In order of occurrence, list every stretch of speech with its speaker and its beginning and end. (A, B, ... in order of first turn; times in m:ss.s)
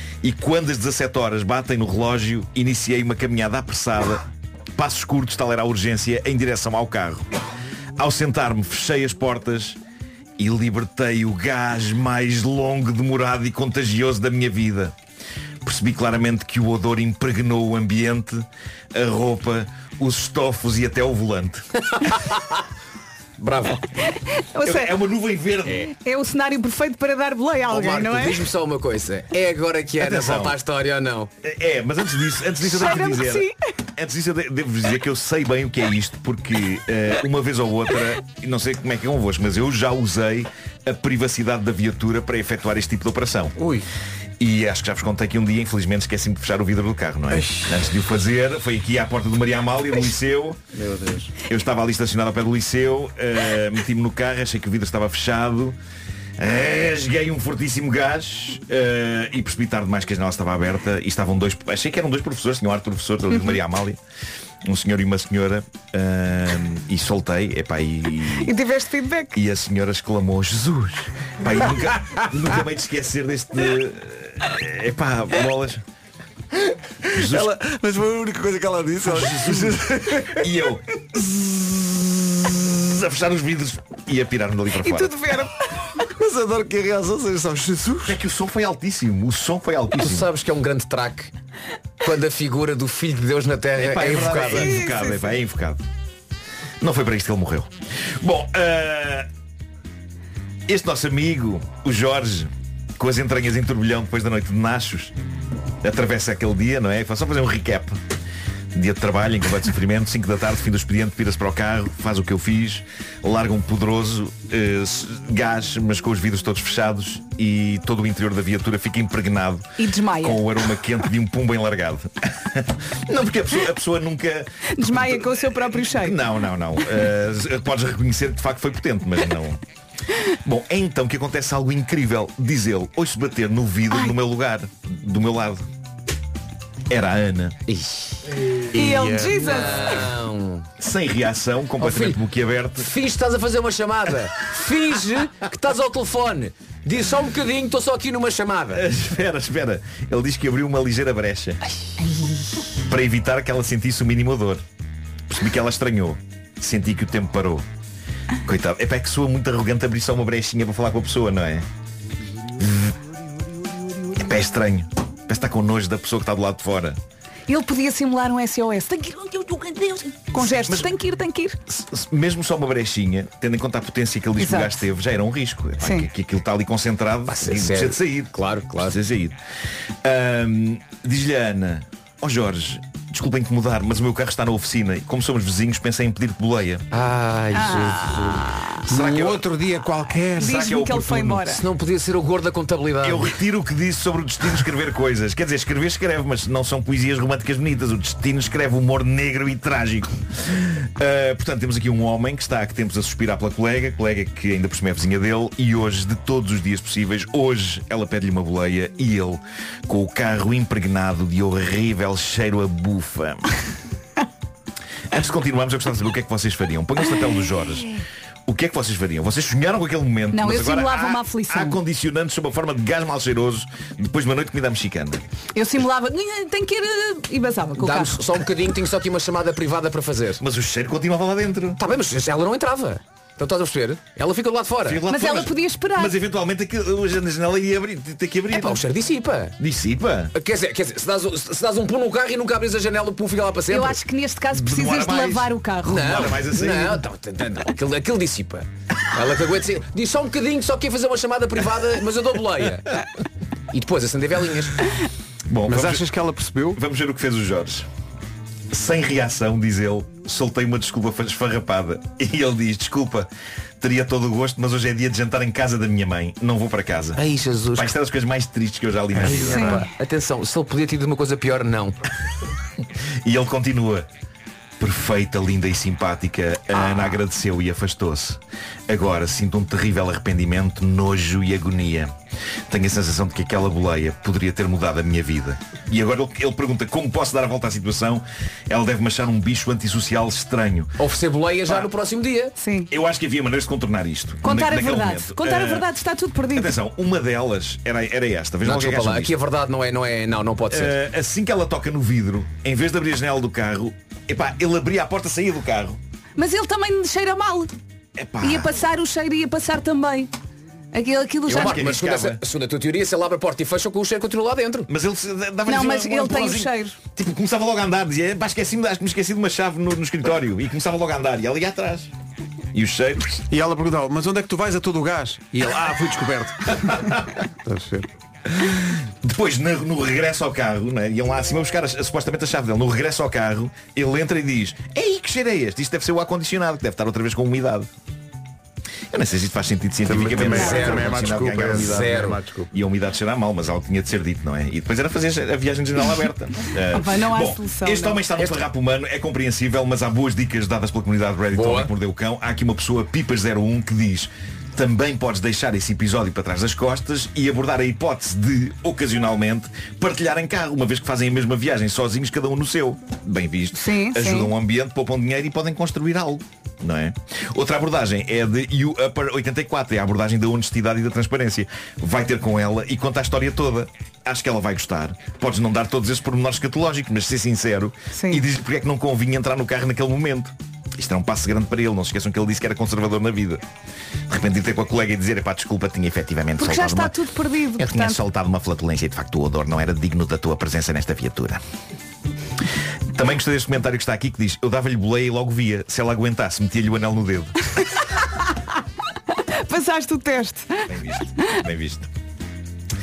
0:00.2-0:04.2 A
0:04.8-0:07.2 A
0:08.0-0:09.8 A
0:10.4-0:14.9 A
0:15.6-0:21.6 A
0:21.9-0:22.6 B
0:23.4-0:23.8 B
0:24.2-0:24.9 C
0:24.6-0:25.9 A
0:25.8-0:28.4 C
0:27.7-0:31.3 B
0:30.0-0:30.6 A
0:31.4-0:43.5 A
0:32.6-0:33.5 C
0:43.6-0:43.8 D
0:44.4-0:50.6 A
0:47.3-0:47.8 D
0:50.7-0:51.3 D
0:51.4-0:55.8 A
0:56.4-1:04.0 A
1:04.6-1:08.5 A
1:08.3-1:09.4 C
1:09.3-1:15.8 A
1:17.1-1:20.5 D
1:17.1-1:17.5 A
1:19.1-1:19.8 A
1:20.3-1:25.4 A
1:24.8-1:25.5 C
1:26.0-1:28.2 D
1:28.0-1:30.2 A
1:30.0-1:31.3 B
1:32.0-1:34.8 B
1:33.8-1:35.8 A
1:34.5-1:35.3 C
1:36.8-1:39.3 A
1:40.7-1:45.1 A
1:45.8-1:48.0 A
1:48.7-2:09.6 A
1:59.8-2:00.4 C
2:04.7-2:06.2 C
2:10.4-2:15.6 A
2:16.9-2:17.6 A
2:17.7-2:18.3 B
2:18.7-2:20.0 C
2:18.7-2:19.6 D
2:19.4-2:20.7 B
2:20.8-2:22.9 A
2:21.8-2:22.2 B
2:22.8-2:28.9 B
2:28.7-2:31.6 A
2:32.9-2:34.6 A
2:35.3-2:37.6 A
2:38.4-2:41.6 A
2:42.6-2:42.9 A
2:44.1-2:47.0 A
2:47.5-2:51.6 C
2:50.3-2:50.9 A
2:51.7-2:59.4 A
2:54.4-2:54.8 C
2:55.8-2:56.1 C
2:57.3-2:59.0 B
3:00.0-3:06.8 A
3:06.9-3:09.4 B
3:07.5-3:08.7 C
3:08.9-3:10.7 D
3:10.4-3:11.6 C
3:10.4-3:11.5 A
3:11.5-3:13.4 B
3:13.0-3:33.4 A
3:35.1-3:45.2 A
3:40.3-3:41.8 C
3:45.5-3:48.2 C
3:47.8-3:50.4 B
3:50.4-3:51.8 A
3:51.8-3:55.0 B
3:54.8-3:58.8 A
3:55.1-3:56.1 C
3:58.5-3:59.5 B
3:59.6-4:00.3 A
4:00.3-4:04.0 B
4:03.7-4:06.2 C
4:04.5-4:07.0 A
4:05.8-4:13.0 B
4:13.7-4:14.8 B
4:15.5-4:16.0 A
4:15.6-4:16.8 D
4:16.7-4:17.9 A
4:18.7-4:23.3 A
4:23.8-4:27.2 A
4:27.2-4:27.9 B
4:27.8-4:29.9 A
4:29.1-4:29.4 D
4:29.2-4:32.0 B
4:29.5-4:29.8 C
4:33.2-4:34.1 A
4:34.8-4:42.1 A
4:36.8-4:37.2 B
4:42.7-4:50.9 A
4:51.0-4:52.5 B
4:52.6-4:52.9 C
4:52.9-4:55.9 A
4:54.4-4:56.7 C
4:56.5-4:59.3 A
4:58.6-5:00.9 B
5:00.7-5:06.0 A
5:06.4-5:07.7 C
5:08.2-5:08.8 A
5:08.4-5:10.3 C
5:10.9-5:11.8 C
5:11.5-5:12.4 A
5:11.5-5:14.9 B
5:14.9-5:22.1 A
5:15.7-5:17.0 C
5:22.7-5:23.4 A
5:23.5-5:28.1 D
5:28.6-5:37.9 A
5:39.1-6:23.6 A
5:40.0-5:42.7 D
5:40.5-5:42.4 B
5:46.9-5:48.6 C
5:51.5-5:51.9 B
6:03.7-6:04.5 C
6:18.1-6:18.4 C
6:24.3-6:27.2 A
6:26.6-6:28.2 C
6:27.8-6:31.6 A
6:33.1-6:37.7 A
6:39.5-6:40.9 C
6:40.9-6:42.1 A